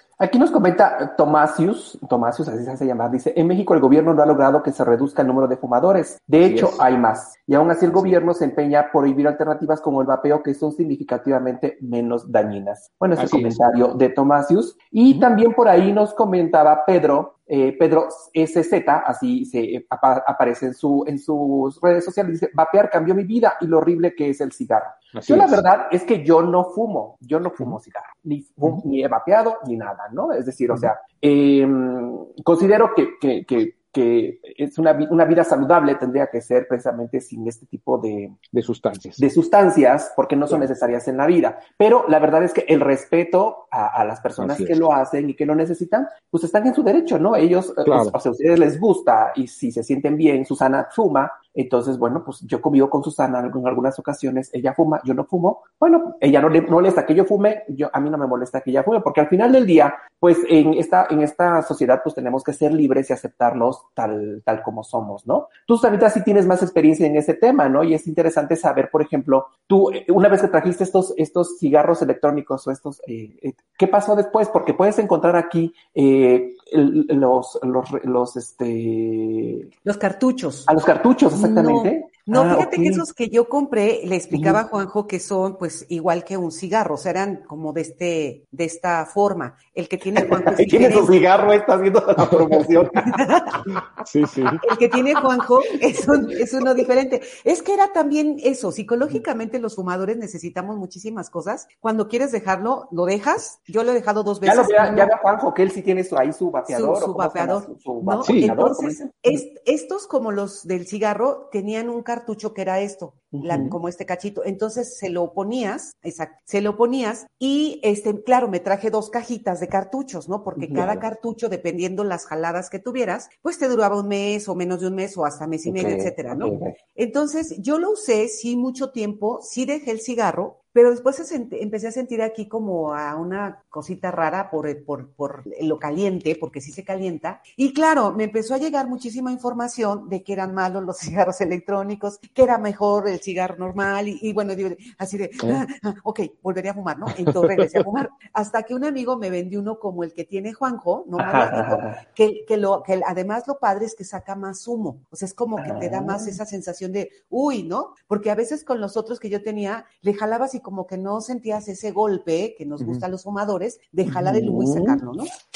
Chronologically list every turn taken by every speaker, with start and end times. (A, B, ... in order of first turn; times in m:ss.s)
0:00.2-0:38.4 A
0:06.4-0:06.8 B
0:07.9-0:08.2 B
0:13.2-0:13.6 B
0:25.1-0:25.6 B
0:38.5-0:39.2 B
0:39.2-1:19.7 A
0:44.4-0:44.8 B
0:47.8-0:48.2 B
1:19.8-1:20.7 C
1:20.7-1:23.0 A
1:21.4-1:31.1 C
1:30.3-1:33.1 A
1:32.3-1:32.7 B
1:33.0-1:33.6 C
1:34.0-1:34.6 B
1:34.6-1:45.1 C
1:44.4-1:49.4 A
1:46.7-2:45.3 C
1:48.2-1:48.6 B
1:53.3-1:53.8 A
2:00.6-2:01.0 A
2:05.7-2:06.8 A
2:27.4-2:27.8 B
2:31.2-2:32.0 A
2:35.6-2:36.4 A
2:42.8-2:43.0 B
2:44.1-2:45.0 A